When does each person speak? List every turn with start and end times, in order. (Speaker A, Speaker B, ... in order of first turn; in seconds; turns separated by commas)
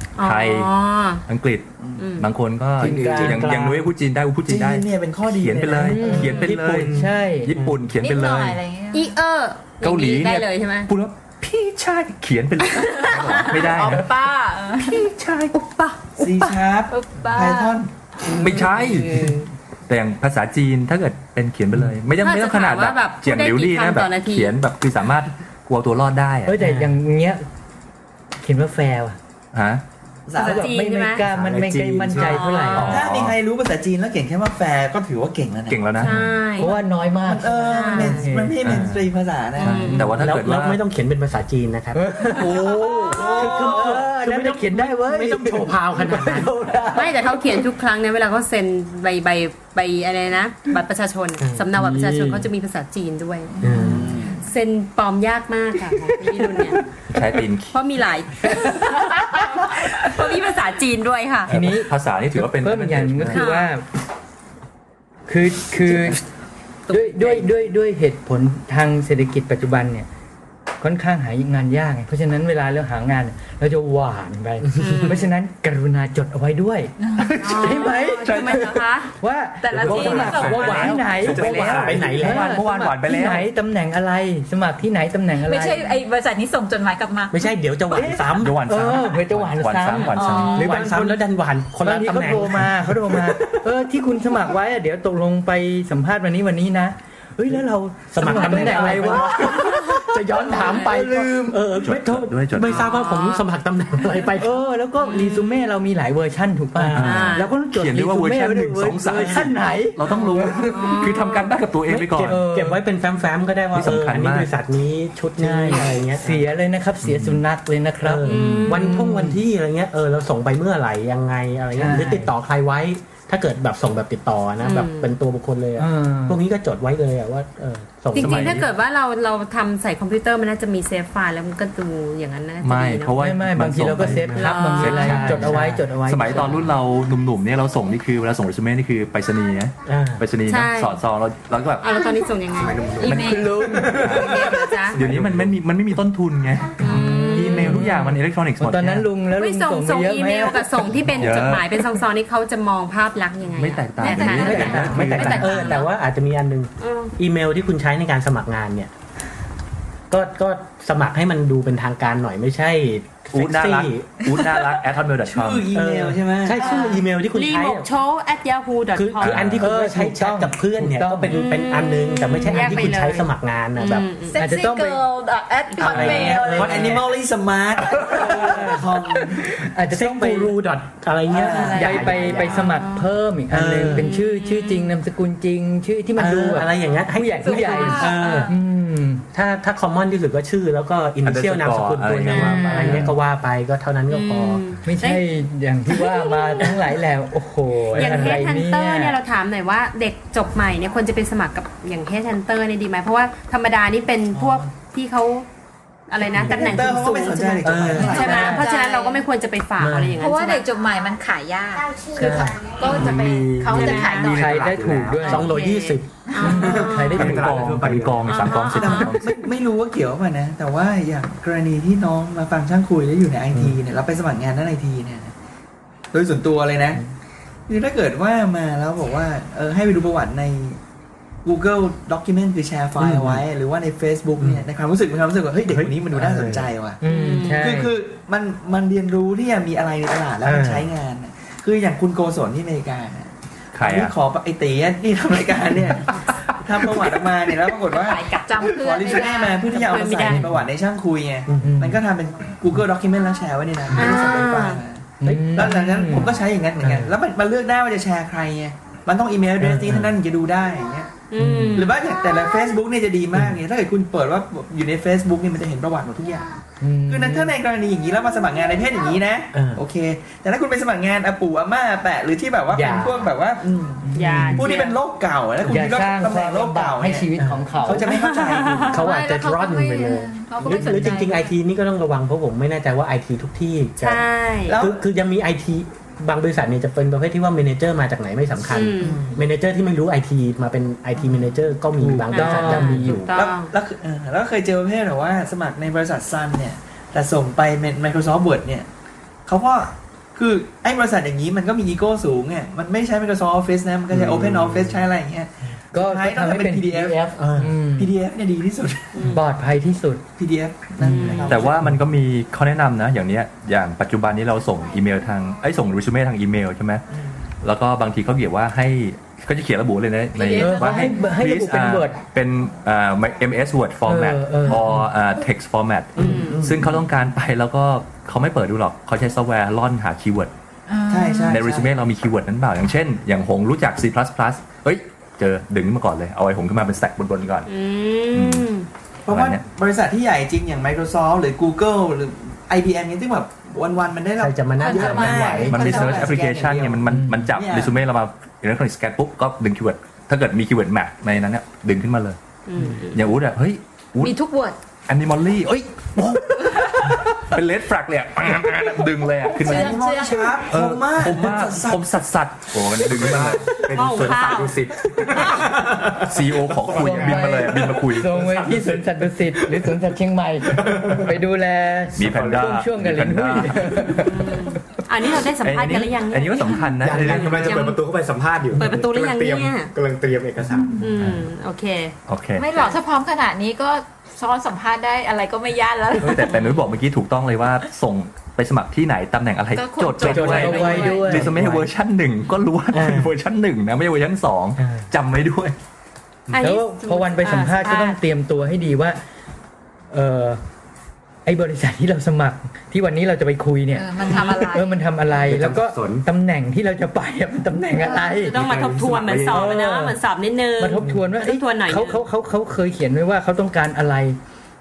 Speaker A: 0.2-1.2, Speaker B: 0.2-0.7, Speaker B: 1.3-8.6, Speaker C: 1.8-2.1, Speaker A: 2.0-2.3, Speaker D: 2.8-3.9, Speaker E: 2.8-3.2, Speaker C: 4.5-6.3, Speaker E: 5.8-7.5, Speaker D: 6.0-7.8, Speaker A: 6.1-6.5, Speaker F: 8.0-9.2, Speaker A: 8.9-10.9, Speaker B: 9.8-14.1, Speaker A: 12.7-13.7, Speaker F: 12.9-15.0, Speaker B: 14.8-15.7, Speaker A: 15.6-16.3, Speaker C: 16.2-17.9, Speaker F: 16.9-17.8, Speaker A: 18.4-19.5, Speaker B: 18.4-19.4, Speaker B: 19.9-26.6, Speaker A: 22.2-24.5, Speaker E: 26.5-27.4, Speaker D: 26.6-27.0, Speaker E: 28.4-29.2, Speaker B: 29.5-29.8, Speaker C: 30.3-30.7, Speaker A: 30.4-31.2, Speaker E: 30.4-33.0, Speaker G: 31.2-32.5, Speaker A: 32.1-33.0, Speaker B: 32.7-33.4, Speaker C: 32.8-36.0, Speaker B: 35.7-36.3, Speaker A: 36.0-36.7, Speaker E: 36.6-38.7, Speaker C: 37.2-40.1, Speaker A: 37.5-38.3, Speaker B: 38.6-40.8, Speaker A: 39.6-40.1, Speaker D: 40.2-46.7, Speaker E: 41.9-47.6, Speaker B: 42.4-43.2, Speaker C: 43.1-44.0, Speaker A: 46.9-53.5, Speaker D: 51.4-51.7, Speaker E: 51.8-52.5, Speaker F: 53.5-54.4, Speaker D: 53.6-54.1, Speaker C: 53.8-54.4, Speaker A: 54.4-56.8, Speaker B: 57.1-57.8, Speaker A: 57.7-61.5, Speaker B: 61.5-63.5, Speaker E: 61.5-63.9, Speaker A: 63.3-63.7, Speaker E: 65.3-66.2, Speaker A: 66.9-67.5, Speaker E: 66.9-70.1, Speaker E: 70.8-85.9, Speaker D: 74.7-75.0, Speaker A: 74.8-75.3, Speaker F: 77.0-78.1, Speaker A: 77.4-79.1, Speaker B: 78.2-78.8, Speaker F: 79.6-81.0, Speaker B: 79.7-83.5, Speaker D: 79.8-82.6, Speaker G: 81.2-82.1, Speaker F: 85.4-87.5, Speaker D: 87.3-88.6, Speaker E: 87.9-91.2, Speaker B: 88.4-90.6, Speaker F: 90.1-90.6, Speaker A: 90.3-90.6, Speaker D: 90.5-93.3, Speaker E: 91.8-101.6, Speaker D: 98.1-104.6, Speaker F: 98.5-99.2, Speaker B: 101.8-102.9, Speaker A: 102.6-103.4, Speaker E: 104.3-111.0, Speaker A: 105.0-105.7, Speaker D: 106.8-107.3, Speaker B: 107.0-112.4, Speaker A: 107.0-107.5, Speaker D: 109.1-109.5, Speaker A: 110.1-111.5, Speaker D: 111.9-116.5, Speaker E: 112.2-112.8, Speaker B: 113.7-114.5, Speaker E: 115.4-119.4, Speaker D: 118.0-128.6, Speaker A: 118.3-118.9, Speaker E: 121.8-122.3, Speaker A: 124.6-125.1, Speaker E: 125.8-126.4, Speaker A: 128.2-133.2, Speaker B: 128.2-128.7, Speaker B: 132.6-142.0, Speaker E: 133.2-136.7, Speaker D: 134.0-134.7, Speaker A: 134.4-135.5, Speaker D: 135.2-135.9, Speaker D: 139.8-140.2, Speaker A: 140.5-141.0, Speaker A: 141.8-143.0, Speaker G: 142.5-145.6, Speaker F: 143.0-144.8, Speaker E: 143.1-144.0, Speaker A: 144.0-145.0, Speaker B: 144.0-149.1, Speaker A: 146.8-148.0, Speaker E: 146.8-150.9, Speaker A: 149.4-155.9, Speaker B: 151.2-151.8, Speaker B: 153.6-155.6, Speaker F: 154.0-155.8, Speaker E: 154.3-155.4, Speaker D: 154.3-158.9, Speaker A: 156.8-157.1, Speaker D: 160.1-164.1, Speaker B: 163.3-165.7, Speaker F: 164.3-164.6, Speaker C: 165.2-166.6, Speaker D: 165.7-167.9, Speaker A: 166.6-169.5, Speaker F: 166.6-167.0, Speaker D: 168.9-174.1, Speaker B: 169.2-169.7, Speaker E: 169.6-171.4, Speaker A: 171.3-174.4, Speaker F: 174.3-177.0, Speaker E: 174.4-175.0, Speaker D: 175.8-177.1, Speaker C: 175.9-179.5, Speaker D: 178.1-178.8, Speaker E: 178.2-180.6, Speaker D: 179.9-182.8, Speaker A: 181.3-183.1, Speaker C: 181.3-181.8, Speaker E: 181.7-189.3, Speaker D: 183.5-184.1, Speaker A: 183.9-184.9, Speaker D: 186.2-188.6, Speaker F: 187.4-188.5, Speaker A: 187.8-188.5, Speaker D: 189.3-194.6, Speaker B: 191.2-193.1, Speaker A: 192.3-192.9, Speaker E: 192.3-193.1, Speaker A: 194.1-195.2, Speaker E: 194.9-199.2, Speaker A: 195.9-196.9, Speaker D: 197.9-198.4, Speaker A: 197.9-205.5, Speaker A: 206.1-210.7, Speaker C: 206.3-208.6, Speaker D: 206.4-206.8, Speaker D: 207.6-208.2, Speaker F: 208.0-209.2, Speaker E: 208.2-208.7, Speaker D: 209.8-210.2, Speaker F: 210.2-214.6, Speaker D: 212.2-212.6, Speaker B: 212.9-213.6, Speaker G: 212.9-215.5, Speaker A: 213.7-214.3, Speaker E: 214.2-215.5, Speaker D: 215.2-216.1, Speaker A: 215.5-217.4, Speaker F: 216.3-216.7, Speaker E: 216.4-217.9, Speaker G: 216.5-218.3, Speaker B: 217.1-219.4, Speaker A: 218.3-219.2, Speaker C: 218.7-225.3, Speaker C: 226.1-227.0, Speaker C: 227.7-230.8, Speaker C: 231.4-237.0, Speaker D: 233.0-233.4, Speaker D: 234.4-234.7, Speaker D: 235.7-236.7, Speaker E: 237.0-237.9, Speaker A: 237.1-237.7, Speaker C: 237.6-261.1, Speaker D: 240.4-240.9, Speaker B: 243.8-244.1, Speaker A: 247.9-248.4, Speaker F: 248.3-249.7, Speaker A: 249.6-250.5, Speaker E: 251.6-252.0, Speaker A: 253.9-254.8, Speaker E: 255.2-256.4, Speaker D: 255.2-255.7, Speaker D: 259.6-260.2, Speaker A: 261.3-262.0, Speaker E: 261.4-261.8, Speaker C: 261.8-266.5, Speaker E: 266.8-267.5, Speaker C: 267.1-279.0, Speaker D: 269.5-269.8, Speaker D: 272.7-273.3, Speaker E: 274.1-274.7, Speaker A: 274.2-275.0, Speaker E: 275.7-278.1, Speaker D: 277.4-278.1, Speaker A: 278.0-279.0, Speaker D: 278.9-293.3, Speaker F: 279.0-281.5, Speaker A: 284.0-284.8, Speaker C: 284.7-285.1, Speaker A: 288.7-289.3, Speaker C: 289.0-289.4, Speaker E: 292.0-293.2, Speaker A: 292.3-293.7, Speaker C: 293.3-298.9, Speaker C: 299.5-307.3, Speaker D: 304.1-305.1, Speaker E: 305.9-308.1, Speaker D: 307.4-307.8, Speaker C: 308.0-309.3, Speaker A: 309.1-309.4, Speaker E: 309.3-310.2, Speaker C: 310.4-311.9, Speaker A: 311.0-311.6, Speaker B: 311.5-317.1, Speaker B: 317.6-330.5, Speaker F: 320.4-321.3, Speaker E: 320.5-322.2, Speaker E: 324.1-325.1, Speaker D: 326.2-326.5, Speaker A: 326.2-326.6, Speaker C: 326.2-326.9, Speaker F: 330.9-331.6, Speaker C: 331.1-331.9, Speaker B: 331.5-337.7, Speaker A: 337.7-338.9, Speaker B: 338.3-338.7, Speaker C: 339.3-348.0, Speaker B: 339.3-339.6, Speaker D: 344.4-345.9, Speaker F: 344.8-346.4, Speaker B: 345.6-352.4, Speaker E: 347.1-347.5, Speaker A: 352.7-353.4, Speaker B: 353.1-354.4, Speaker F: 354.2-354.8, Speaker B: 355.1-363.8, Speaker F: 359.6-360.7, Speaker C: 359.6-362.0, Speaker G: 363.1-369.2, Speaker A: 363.9-365.7, Speaker B: 366.2-368.5, Speaker E: 366.9-374.8, Speaker G: 370.7-371.3, Speaker B: 372.1-374.2, Speaker G: 372.2-372.6, Speaker A: 374.1-378.0, Speaker B: 375.6-377.9, Speaker G: 377.0-381.1, Speaker A: 378.8-379.9, Speaker A: 381.0-382.2, Speaker B: 381.2-381.5, Speaker B: 382.3-382.7, Speaker F: 382.6-386.8, Speaker B: 386.2-395.8, Speaker F: 389.8-391.3, Speaker E: 390.2-391.5, Speaker D: 390.2-390.7, Speaker D: 391.3-391.9, Speaker D: 392.9-393.3, Speaker D: 394.8-395.1, Speaker A: 396.5-398.2, Speaker E: 396.6-399.2, Speaker E: 400.1-400.6, Speaker E: 401.5-408.6, Speaker F: 403.9-404.9, Speaker G: 405.4-406.3, Speaker A: 408.0-412.2, Speaker G: 408.5-409.7, Speaker E: 409.5-410.2, Speaker E: 410.8-414.4